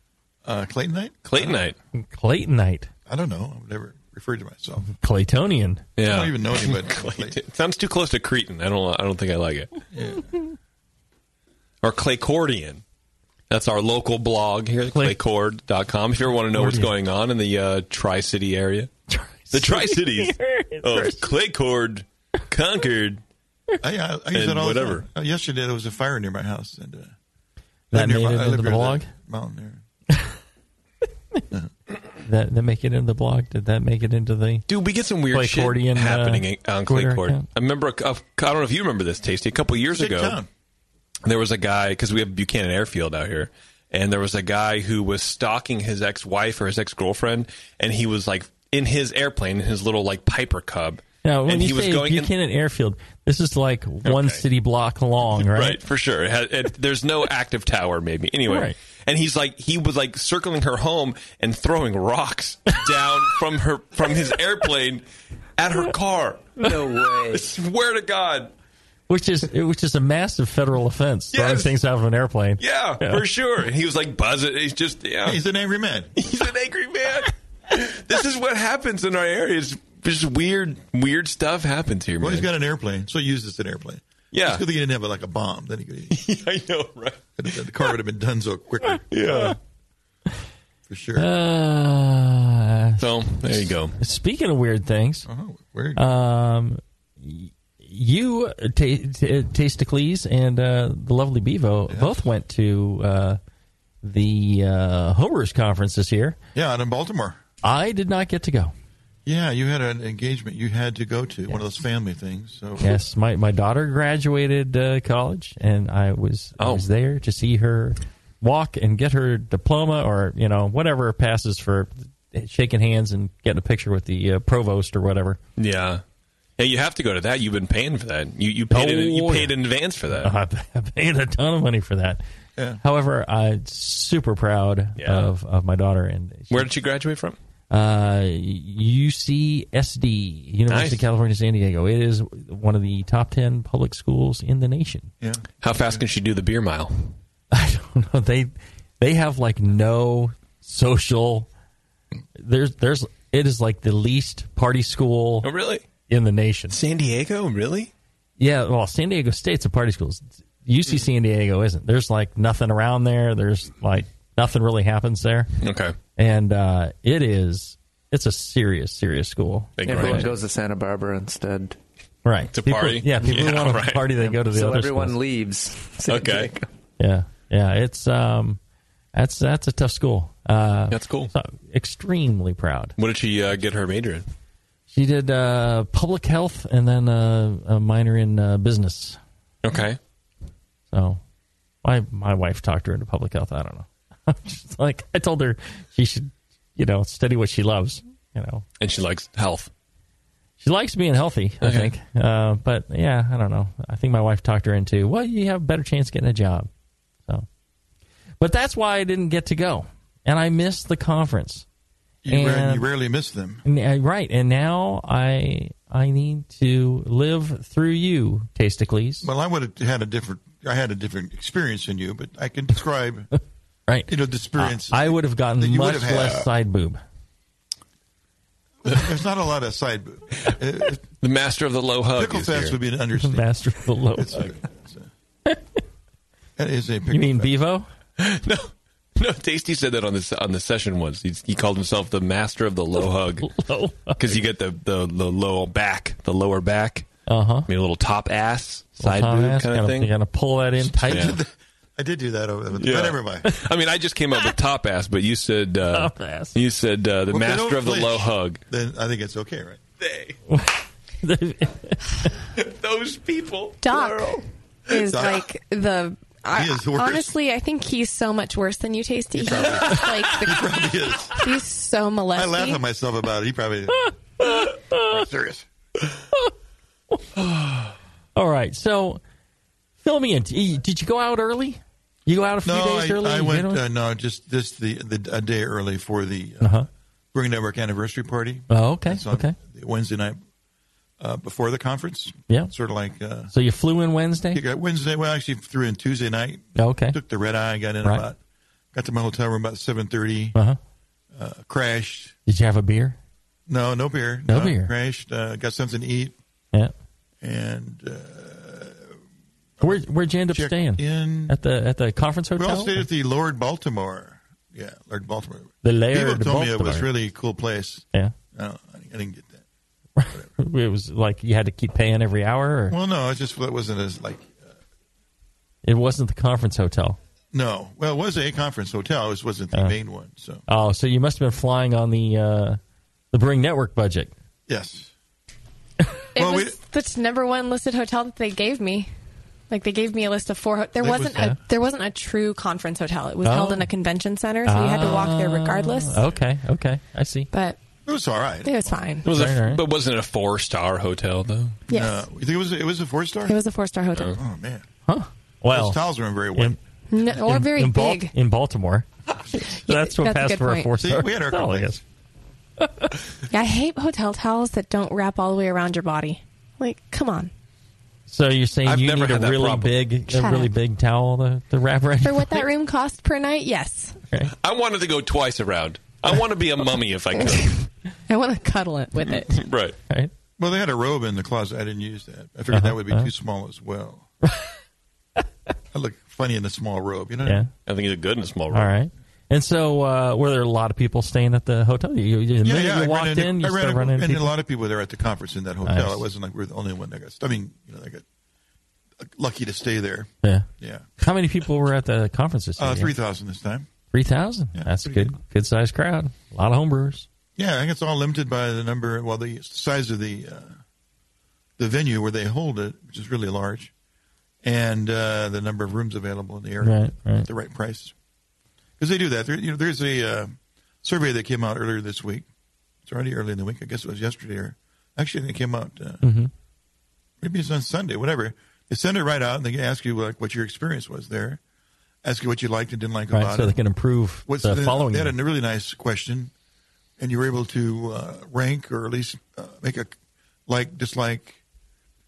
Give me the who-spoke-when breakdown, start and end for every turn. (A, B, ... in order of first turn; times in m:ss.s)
0:00.4-0:01.6 A
0:01.3-0:01.8 B
0:01.9-0:02.9 C
0:03.1-0:04.9 A
0:05.0-0:05.8 C
0:06.0-0:09.7 B
0:06.0-0:07.4 A
0:09.9-0:10.3 A
0:11.8-0:12.8 B
0:13.5-0:18.9 B
0:14.9-0:15.2 C
0:16.5-0:16.9 C
0:19.1-0:21.3 C
0:19.5-0:23.2 B
0:23.8-0:27.1 A
0:24.3-0:25.0 B
0:27.9-0:29.1 C
0:27.9-0:29.8 A
0:32.2-0:34.6 C
0:34.7-0:40.4 B
0:35.3-0:37.4 C
0:39.9-0:40.5 A
0:41.2-0:52.3 B
0:51.2-0:55.8 C
0:54.0-0:54.4 B
0:55.4-1:05.0 B
0:58.5-0:58.8 C
1:05.6-1:08.5 B
1:06.6-1:07.5 D
1:09.1-1:13.2 C
1:11.3-1:11.7 B
1:12.6-1:15.4 B
1:15.2-1:16.2 A
1:16.2-1:22.5 B
1:22.2-1:26.2 A
1:24.3-1:24.6 B
1:26.1-1:27.3 B
1:27.4-1:29.5 A
1:29.1-1:29.6 B
1:30.9-1:31.3 A
1:31.2-1:33.0 C
1:33.0-1:34.0 B
1:34.0-1:35.3 C
1:35.3-1:36.0 A
1:36.0-1:43.4 C
1:41.9-1:42.3 A
1:44.0-1:46.4 C
1:46.6-1:47.4 A
1:47.6-1:48.7 C
1:49.3-1:53.0 A
1:52.8-2:05.4 C
1:56.6-1:56.8 B
2:05.6-2:06.0 B
2:06.6-2:10.3 B
2:08.7-2:09.6 C
2:10.2-2:12.2 C
2:12.6-2:12.8 A
2:12.8-2:16.7 C
2:15.0-2:15.3 B
2:16.5-2:17.4 B
2:17.7-2:25.1 C
2:20.7-2:21.0 B
2:25.2-2:25.5 A
2:25.6-2:27.2 B
2:27.5-2:31.5 C
2:32.4-2:35.5 C
2:35.4-2:35.8 B
2:36.1-2:36.8 C
2:36.7-2:37.9 B
2:38.4-2:45.5 C
2:45.6-2:46.0 B
2:46.2-2:50.3 C
2:49.8-2:50.3 B
2:49.8-2:51.8 D
2:52.2-2:55.2 C
2:52.5-2:54.1 B
2:54.2-2:56.7 D
2:56.1-2:56.5 B
2:57.0-2:58.6 C
2:59.1-3:03.0 C
3:00.9-3:01.3 B
3:03.0-3:04.2 B
3:04.9-3:09.2 C
3:09.6-3:10.0 B
3:10.9-3:11.2 C
3:11.8-3:18.6 C
3:18.8-3:19.7 B
3:20.6-3:26.7 C
3:21.6-3:21.9 B
3:28.4-3:31.6 C
3:32.2-3:33.6 A
3:32.3-3:32.9 C
3:33.6-3:39.3 C
3:39.2-3:43.3 A
3:43.9-3:47.0 C
3:44.1-3:46.5 A
3:48.8-3:51.0 A
3:51.2-3:52.8 B
3:52.2-3:53.5 A
3:53.2-3:54.5 C
3:54.1-3:55.1 A
3:55.5-3:55.8 C
3:56.6-3:57.5 A
3:57.1-3:57.9 C
3:58.2-4:03.5 B
4:03.4-4:04.4 C
4:04.2-4:07.1 B
4:07.3-4:07.7 C
4:07.7-4:10.1 B
4:09.0-4:11.4 C
4:10.8-4:13.5 A
4:11.1-4:11.4 B
4:12.8-4:18.6 B
4:15.9-4:16.6 C
4:17.3-4:19.8 A
4:20.0-4:20.4 B
4:20.5-4:22.3 C
4:22.6-4:24.2 B
4:23.8-4:32.8 E
4:24.9-4:25.4 A
4:26.5-4:27.4 A
4:29.4-4:31.4 A
4:32.3-4:35.7 A
4:34.1-4:35.2 C
4:37.1-4:37.4 C
4:38.4-4:39.2 C
4:40.0-4:43.8 C
4:42.6-4:46.8 A
4:46.6-4:46.9 C
4:47.3-4:50.4 A
4:48.7-4:49.6 C
4:51.2-4:53.5 A
4:53.5-4:54.6 C
4:54.5-4:58.4 A
4:56.8-4:57.2 C
4:58.9-5:00.6 A
5:01.3-5:02.4 A
5:02.5-5:03.2 C
5:03.7-5:06.4 A
5:04.5-5:04.9 C
5:07.4-5:09.2 A
5:09.8-5:11.6 A
5:09.8-5:13.1 C
5:12.6-5:19.6 A
5:15.8-5:17.1 C
5:20.2-5:23.0 C
5:22.9-5:24.7 A
5:25.8-5:27.2 C
5:27.5-5:30.6 A
5:30.7-5:32.8 C
5:33.3-5:34.3 C
5:34.7-5:35.1 A
5:36.4-5:36.8 A
5:36.4-5:39.1 E
5:39.7-5:46.2 E
5:41.0-5:41.6 A
5:43.4-5:43.9 C
5:44.7-5:47.5 C
5:47.5-5:47.8 E
5:48.1-5:49.0 A
5:48.6-5:49.3 E
5:49.2-5:51.8 B
5:49.3-5:49.8 C
5:51.9-5:52.2 E
5:51.9-5:53.6 A
5:53.5-5:54.4 E
5:54.3-5:54.8 A
5:55.1-5:56.8 C
5:55.7-5:56.8 A
5:57.1-5:58.3 E
5:57.4-5:59.1 C
5:59.6-6:00.9 E
5:59.6-6:02.0 C
6:01.0-6:02.0 A
6:02.8-6:03.2 C
6:03.5-6:07.5 E
6:08.3-6:12.6 C
6:08.9-6:10.0 B
6:10.3-6:10.7 E
6:12.2-6:14.2 E
6:14.6-6:17.8 B
6:18.3-6:19.6 E
6:19.2-6:20.0 B
6:20.6-6:24.3 A
6:22.7-6:23.3 C
6:25.9-6:27.7 A
6:27.9-6:28.9 B
6:28.7-6:34.5 C
6:32.6-6:38.2 A
6:35.8-6:36.2 C
6:39.2-6:41.1 A
6:40.4-6:40.7 C
6:41.2-6:43.1 C
6:42.8-6:43.9 A
6:44.1-6:47.3 C
6:44.8-6:45.3 A
6:47.6-6:50.8 A
6:51.8-6:53.9 A
6:54.6-6:58.1 A
6:56.8-6:57.5 C
6:59.0-7:02.5 A
7:03.1-7:06.2 A
7:06.2-7:06.5 C
7:07.4-7:11.6 A
7:12.2-7:13.8 A
7:13.3-7:15.3 C
7:14.5-7:16.5 A
7:17.2-7:20.1 A
7:20.7-7:21.6 A